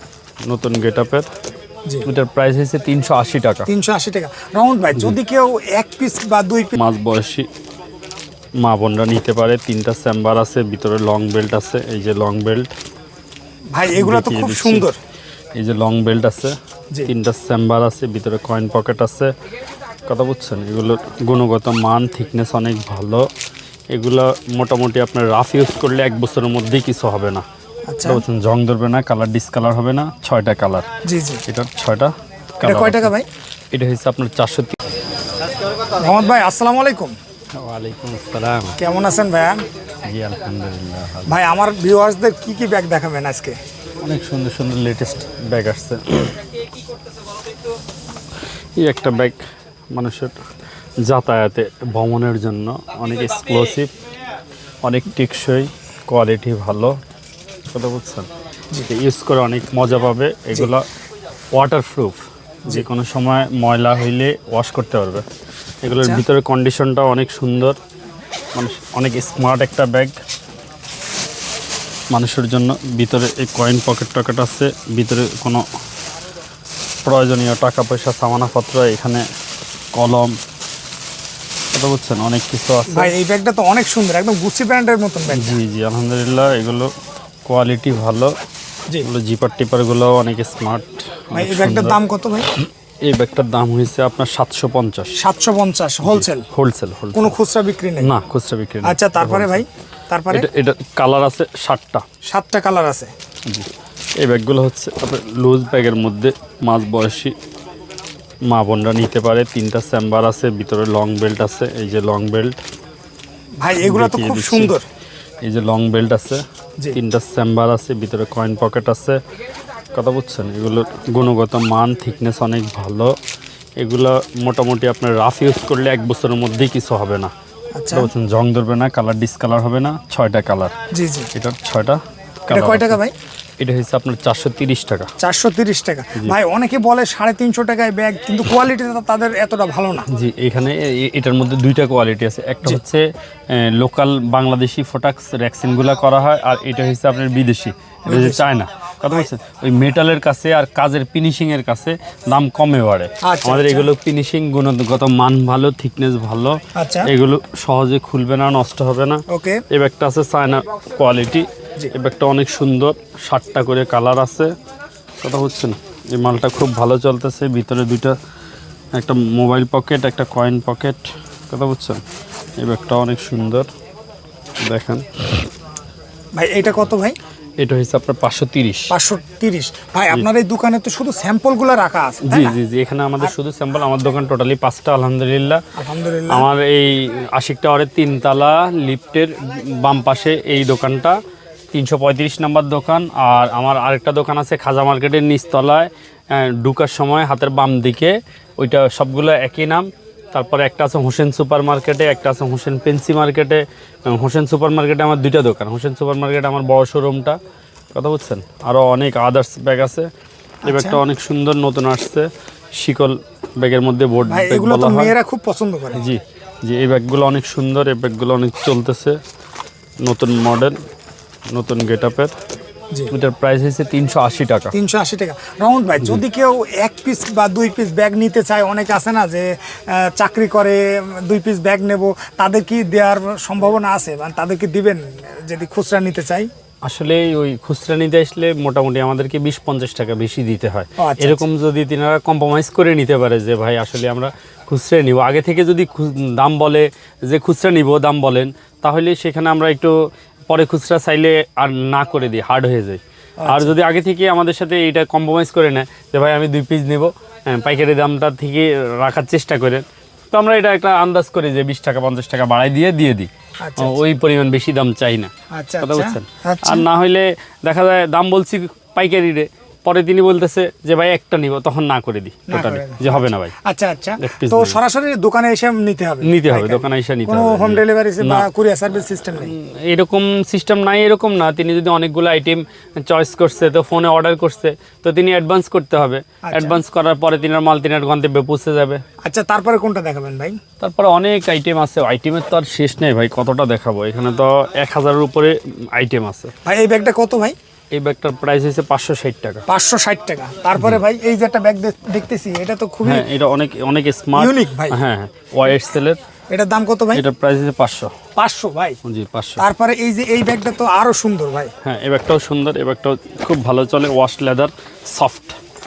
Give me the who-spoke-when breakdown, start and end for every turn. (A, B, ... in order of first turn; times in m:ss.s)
0:00.4-0:01.3 A
0:02.0-0:03.7 A
0:03.7-0:06.8 B
0:06.8-0:07.5 A
0:08.6-0:12.7 A
0:13.7-0:15.0 B
0:13.9-0:14.9 A
0:15.5-0:19.3 A
0:20.1-0:23.3 A
0:23.9-0:27.4 A
0:27.9-0:28.2 B
0:28.0-0:30.9 A
0:31.0-0:31.4 B
0:31.5-0:33.1 A
0:32.6-0:33.3 B
0:33.7-0:34.8 A
0:36.0-0:37.1 B
0:37.6-0:38.8 A
0:38.8-0:39.6 B
0:40.0-0:41.3 A
0:41.2-0:43.6 B
0:44.0-0:46.3 A
0:48.8-0:49.4 A
0:49.9-0:50.4 A
0:51.0-0:53.9 A
0:54.8-0:57.0 A
0:57.7-0:58.3 A
0:58.9-1:00.8 A
1:01.5-1:05.2 A
1:05.8-1:07.8 A
1:06.0-1:06.2 B
1:08.5-1:10.2 A
1:12.1-1:15.6 A
1:17.0-1:19.2 A
1:19.9-1:20.4 A
1:21.7-1:23.1 A
1:22.9-1:25.6 B
1:25.3-1:26.9 A
1:27.4-1:28.3 A
1:29.0-1:32.0 A
1:31.3-1:32.5 B
1:32.6-1:35.2 A
1:35.2-1:36.5 B
1:36.0-1:37.4 A
1:37.1-1:38.1 B
1:38.0-1:39.6 A
1:38.8-1:40.5 B
1:40.3-1:42.0 A
1:42.2-1:43.1 B
1:44.2-1:47.3 A
1:48.5-1:52.6 A
1:53.6-1:54.8 B
1:53.8-1:54.7 A
1:55.4-1:59.2 A
1:59.9-2:03.2 A
2:03.8-2:07.3 A
2:07.8-2:08.1 B
2:07.9-2:10.8 A
2:10.9-2:11.3 B
2:11.3-2:13.0 A
2:12.5-2:13.1 B
2:13.6-2:15.1 A
2:15.2-2:20.1 B
2:20.1-2:44.5 A
2:28.0-2:28.4 B
2:33.2-2:33.9 B
2:36.7-2:37.1 B
2:39.3-2:39.6 B
2:45.2-2:48.2 A
2:48.9-2:52.0 A
2:52.6-2:53.7 A
2:54.6-2:55.2 A
2:56.4-2:57.2 B
2:57.6-2:58.9 A
2:58.9-3:02.6 B
3:02.2-3:05.6 A
3:05.8-3:06.5 B
3:06.3-3:11.2 A
3:11.7-3:27.4 A
3:27.9-3:30.1 A
3:30.6-3:31.0 B
3:30.7-3:35.1 A
3:34.3-3:36.0 B
3:35.9-3:39.2 A
3:40.0-3:40.8 A
3:41.5-3:42.3 A
3:43.1-3:44.7 A
3:44.7-3:56.5 B
3:56.8-4:33.5 A
4:01.0-4:01.4 B
4:13.4-4:13.7 B
4:23.6-4:24.0 B
4:25.5-4:26.8 B
4:32.5-4:39.5 B
4:34.2-4:34.8 A
4:36.2-4:38.5 A
4:39.4-4:49.0 A
4:46.4-4:46.8 B
4:49.2-4:50.6 B
4:50.8-4:56.5 A
4:56.6-4:57.6 B
4:57.9-4:59.6 A
4:59.7-5:03.3 B
5:03.0-5:06.2 A
5:04.4-5:05.0 B
5:06.5-5:07.2 B
5:07.1-5:08.2 A
5:08.4-5:09.0 B
5:09.0-5:09.6 A
5:09.6-5:11.7 B
5:11.8-5:15.6 A